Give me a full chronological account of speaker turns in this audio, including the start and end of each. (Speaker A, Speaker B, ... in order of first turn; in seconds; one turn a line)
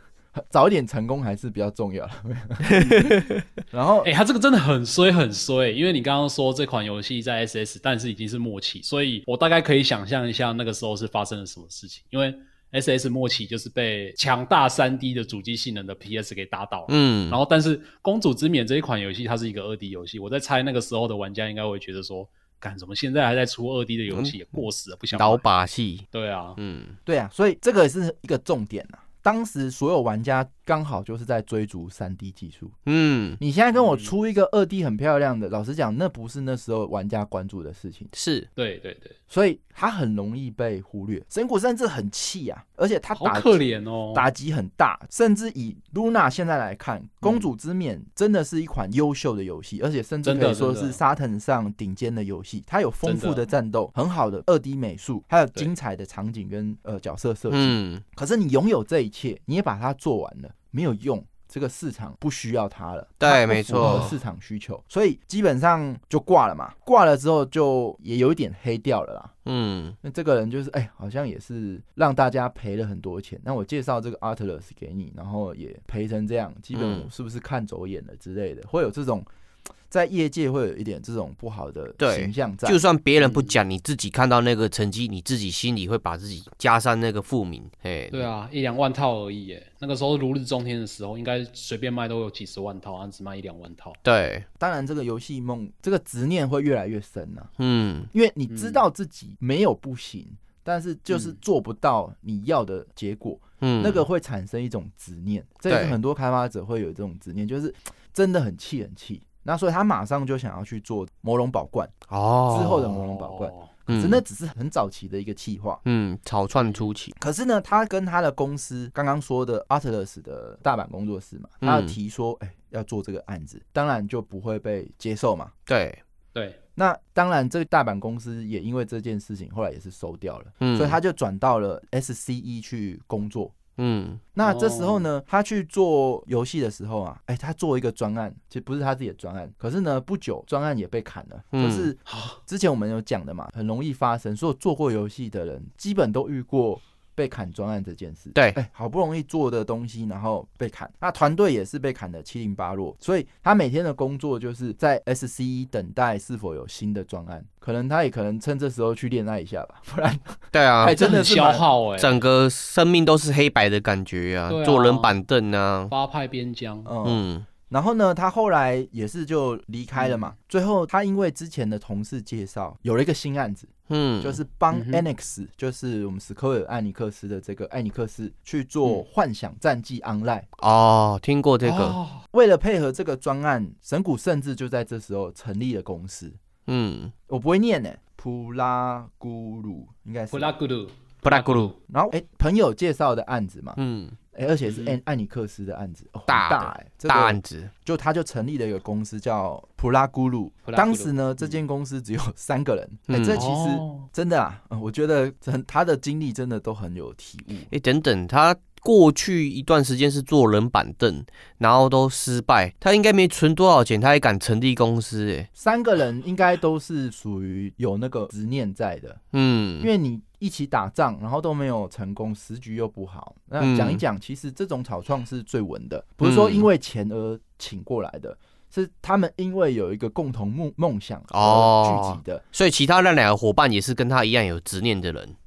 Speaker A: 0.3-2.8
Speaker B: 2.6-3.4
Speaker C: 2.8-3.1
Speaker A: 3.7-4.1
Speaker C: 4.0-25.4
Speaker B: 16.9-17.4
Speaker B: 25.1-26.0
Speaker C: 26.1-26.6
Speaker B: 26.6-26.9
Speaker A: 27.1-32.7
Speaker B: 32.9-33.4
Speaker A: 33.4-38.1
Speaker C: 33.7-34.1
Speaker B: 38.1-38.5
Speaker C: 38.6-39.1
Speaker A: 39.3-43.6
Speaker C: 43.1-44.2
Speaker A: 44.1-69.3
Speaker C: 50.2-51.0
Speaker C: 53.0-53.4
Speaker B: 57.5-58.0
Speaker B: 63.2-64.2
Speaker C: 63.8-64.1
Speaker B: 69.5-70.0
Speaker A: 70.0-79.3
Speaker B: 76.7-77.1
Speaker A: 79.9-82.8
Speaker B: 82.0-88.3
Speaker C: 83.2-83.6
Speaker C: 88.1-94.0
Speaker B: 94.0-94.4
Speaker A: 94.6-97.5
Speaker B: 97.6-98.1
Speaker A: 98.1-111.9
Speaker C: 98.5-98.8
Speaker C: 101.1-101.4
Speaker B: 103.6-104.0
Speaker B: 105.7-106.0
Speaker B: 112.1-112.9
Speaker A: 112.5-115.8
Speaker C: 112.7-113.7
Speaker B: 113.9-114.2
Speaker B: 115.8-117.1
Speaker C: 116.6-116.8
Speaker A: 117.2-125.5
Speaker B: 121.6-121.9
Speaker B: 125.7-126.0
Speaker A: 126.8-133.5
Speaker B: 130.6-131.0
Speaker B: 133.8-134.2
Speaker A: 134.3-161.6
Speaker C: 134.4-135.0
Speaker B: 141.5-141.9
Speaker C: 142.1-142.4
Speaker B: 160.5-161.0
Speaker C: 160.9-162.2
Speaker B: 162.0-165.9
Speaker C: 164.5-165.1
Speaker C: 165.9-166.9
Speaker A: 166.8-180.5
Speaker B: 167.0-167.5
Speaker C: 169.9-170.3
Speaker B: 173.9-174.4
Speaker C: 174.7-175.1
Speaker B: 180.6-182.0
Speaker C: 181.6-182.2
Speaker A: 182.3-186.4
Speaker B: 186.7-187.1
Speaker A: 187.3-190.5
Speaker C: 190.3-191.7
Speaker B: 191.2-191.7
Speaker A: 191.9-193.8
Speaker B: 193.8-194.2
Speaker A: 194.3-207.7
Speaker C: 194.6-195.0
Speaker B: 196.3-197.7
Speaker C: 200.7-201.6
Speaker B: 203.1-203.4
Speaker C: 203.3-204.1
Speaker B: 207.7-215.5
Speaker A: 215.6-219.2
Speaker B: 219.3-219.9
Speaker A: 219.8-232.4
Speaker B: 223.6-224.0
Speaker B: 226.2-226.7
Speaker B: 231.3-235.3